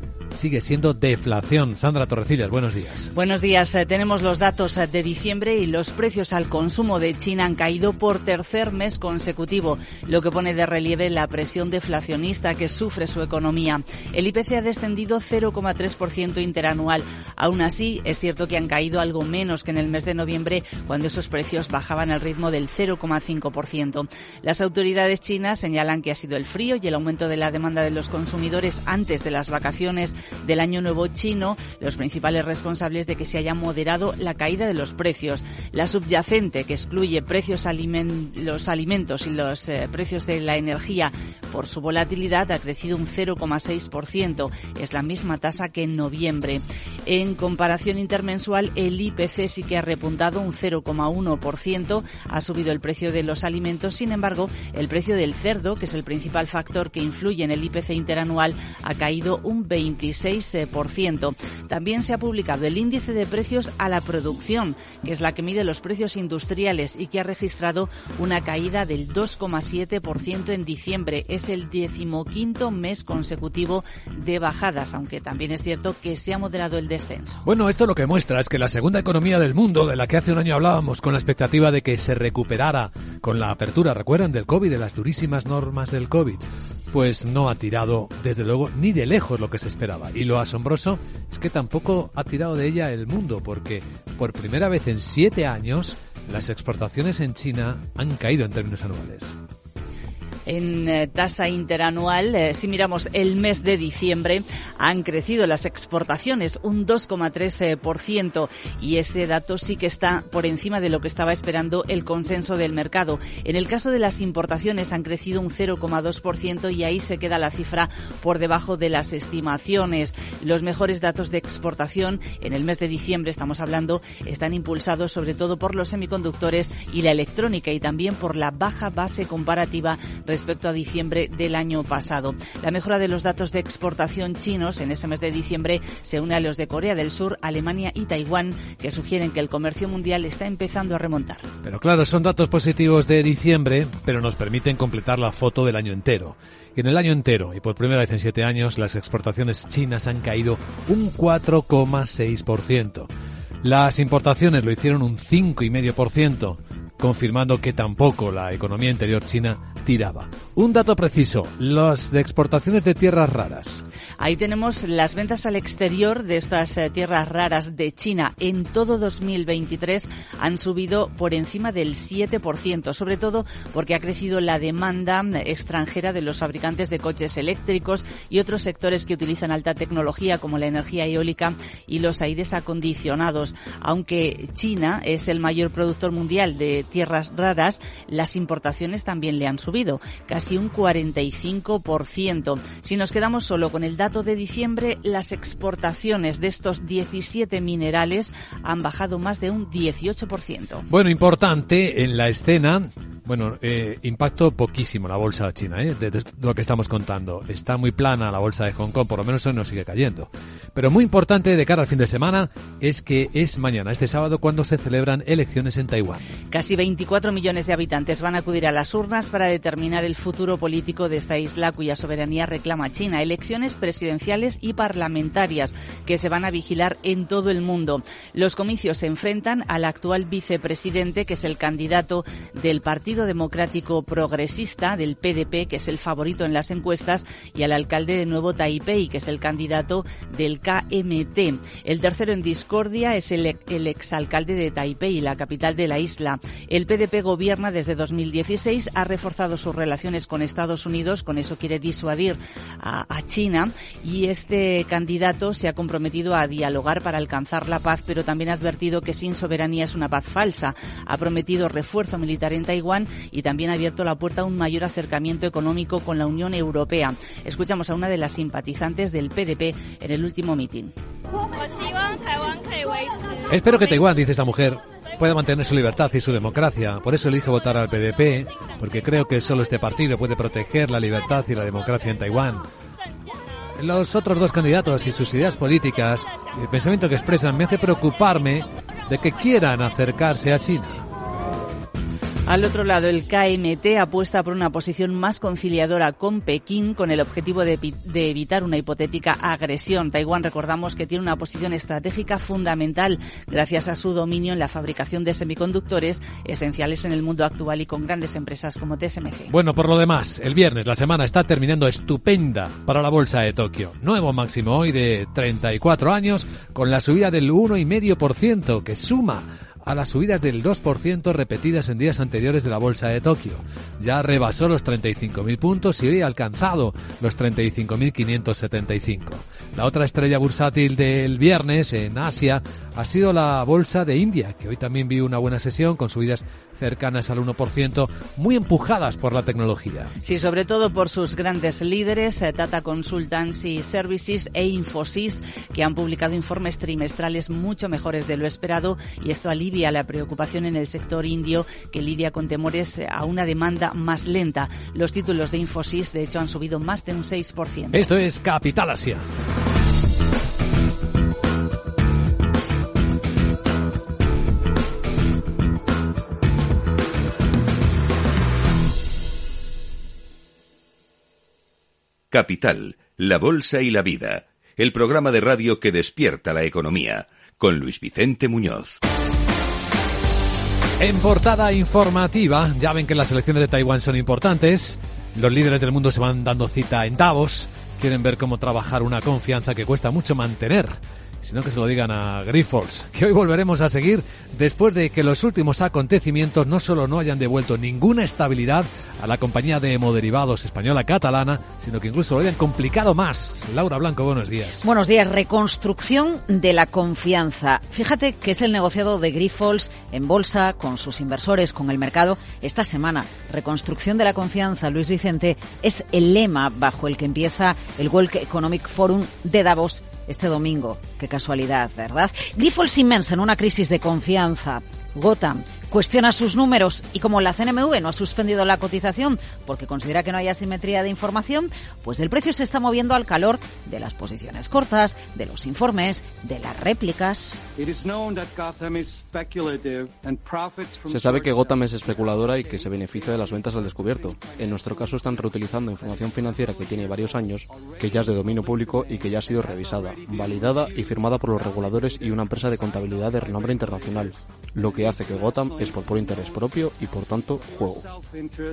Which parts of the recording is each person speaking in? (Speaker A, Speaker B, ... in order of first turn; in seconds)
Speaker A: 0.3-3.1, 77.5-99.4, 141.6-153.1, 153.6-163.8, 200.9-216.3, 273.5-282.6, 283.8-291.0, 309.5-340.1, 357.9-359.2, 381.0-404.9
Speaker B: 3.1-77.4, 100.5-141.5, 164.2-200.9, 216.5-270.9, 292.5-309.5, 340.2-358.1
Speaker C: 372.3-379.0
Speaker D: 404.8-437.6
Speaker E: 437.8-458.2